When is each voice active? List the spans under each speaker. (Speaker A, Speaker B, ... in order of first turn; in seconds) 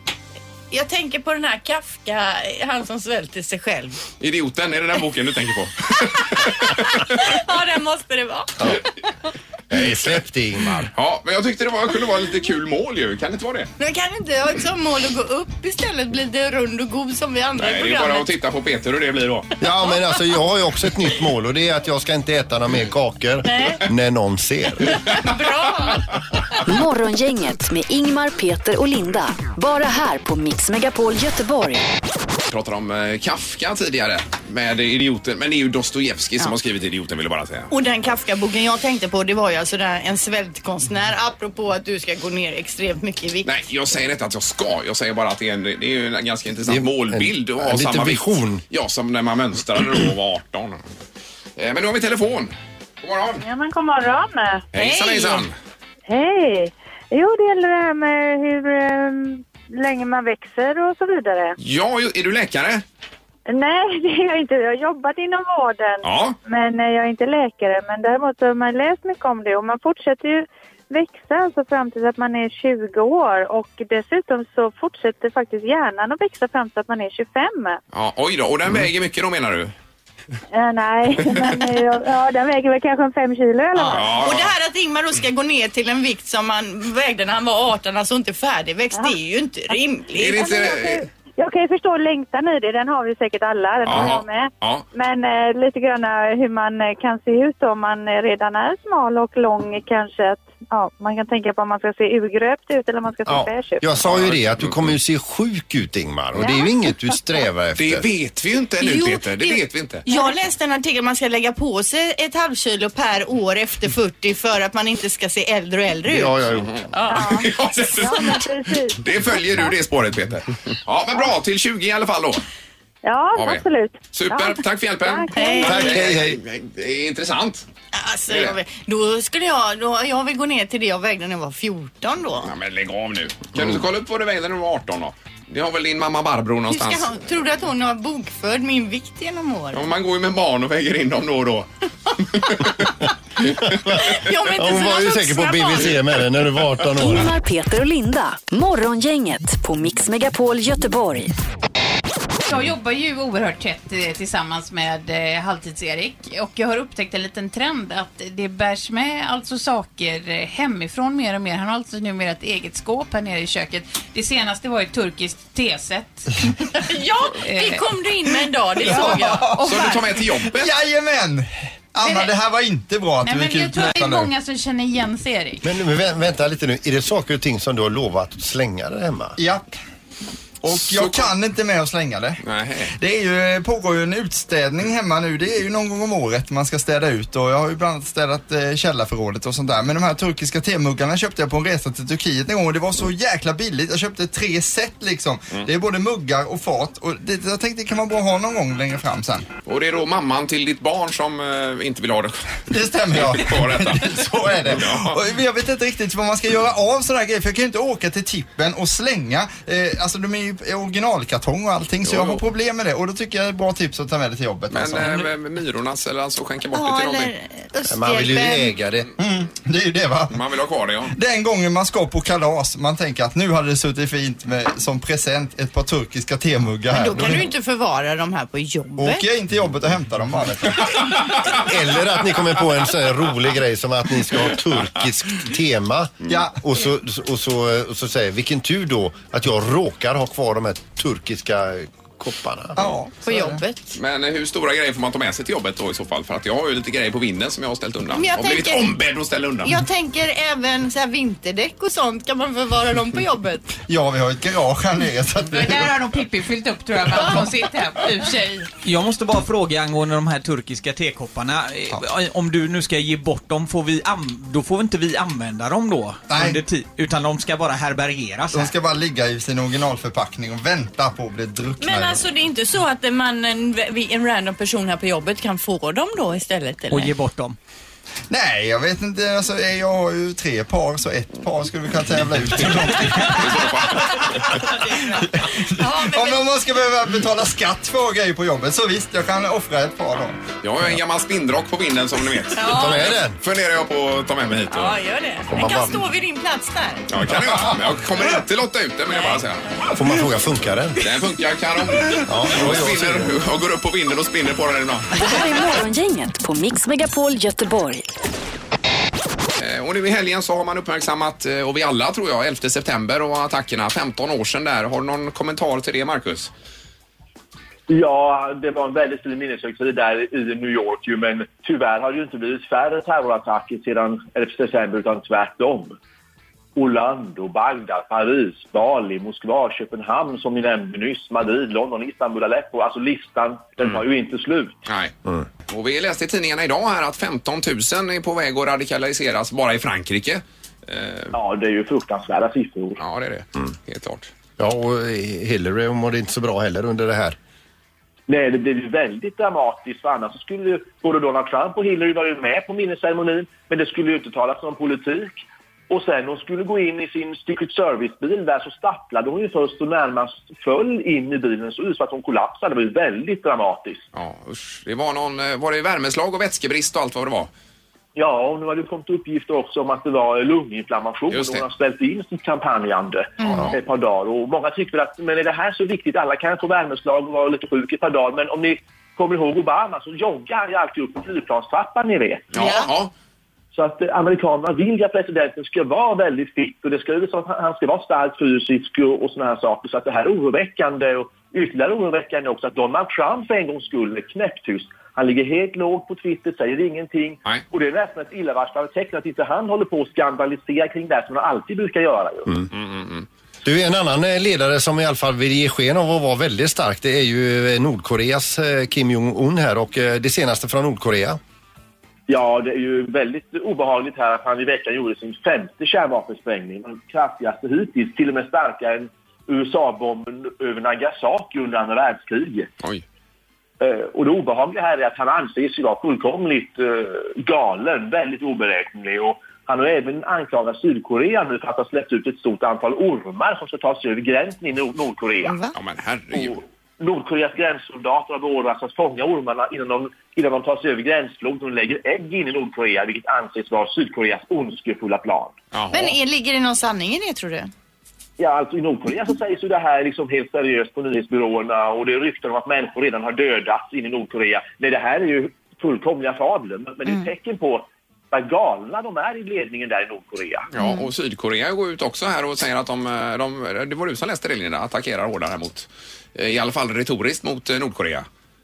Speaker A: 0.7-4.0, 6.6-8.8, 13.8-18.3, 23.4-23.9, 24.9-26.1, 37.7-43.5, 54.8-55.4, 83.8-90.5, 108.8-117.5, 125.3-126.0, 127.9-132.5, 136.7-139.8, 144.0-146.0, 166.7-169.5, 216.7-218.7, 226.9-229.2, 243.2-243.9, 248.1-249.0, 249.6-253.7, 271.8-277.1, 284.0-286.5, 292.5-293.2, 294.7-297.1, 299.1-299.4, 373.4-373.7, 382.5-382.9, 435.4-435.7, 445.9-447.7, 460.8-461.1
Speaker B: 4.2-7.2, 9.7-10.2, 10.9-13.7, 17.6-19.5, 32.5-37.7, 43.4-50.8, 51.6-53.4, 54.7-55.5, 61.6-62.8, 66.0-66.4, 77.9-79.7, 83.8-84.5, 90.2-91.0, 93.8-94.9, 104.0-104.9, 107.8-110.0, 116.6-118.4, 119.0-122.4, 123.3-127.7, 128.3-128.6, 132.4-137.1, 139.7-144.2, 169.6-170.7, 180.7-181.3, 182.4-182.9, 199.7-205.2, 212.0-212.4, 214.7-217.3, 220.3-221.1, 243.9-249.8, 283.2-284.7, 290.6-295.0, 297.1-299.7, 301.0-305.1, 309.6-316.5, 334.9-335.1, 335.7-341.4, 343.0-344.3, 364.1-367.5, 371.3-371.6, 373.4-373.8, 382.5-383.1, 402.7-403.3, 435.7-436.6, 445.7-446.2, 460.7-468.3
Speaker C: 9.7-10.9, 19.6-25.0, 46.7-48.6, 103.3-108.1, 116.1-116.8, 125.6-126.4, 143.8-147.3, 175.6-179.4, 217.9-219.1, 231.5-242.8, 292.6-293.4, 295.5-296.1, 299.9-301.0, 302.2-303.4, 344.6-347.4, 403.6-411.4
Speaker D: 26.7-31.8, 147.0-151.3, 305.1-308.1
Speaker E: 53.4-54.6, 56.1-61.5, 63.5-77.8, 80.5-84.3, 90.3-103.8, 106.4-106.7, 117.1-119.0, 123.0-125.9
Speaker F: 152.5-166.4, 167.4-167.8, 168.8-170.2, 172.0-172.3, 173.2-175.7, 255.5-258.7
Speaker G: 168.8-174.3, 179.4-179.7, 180.6-199.5, 202.7-215.1, 219.2-220.4, 221.1-227.5, 229.0-231.1, 236.3-236.6, 242.8-243.6, 253.9-256.0, 266.3-266.6, 268.5-272.2, 278.3-283.5, 284.1-290.6
Speaker H: 258.8-268.7, 276.9-277.6
Speaker I: 317.9-326.0, 326.8-334.9, 341.3-343.0, 348.3-364.1, 368.1-382.5, 383.7-402.6, 412.3-422.7, 423.8-435.6, 436.3-445.6, 448.4-460.7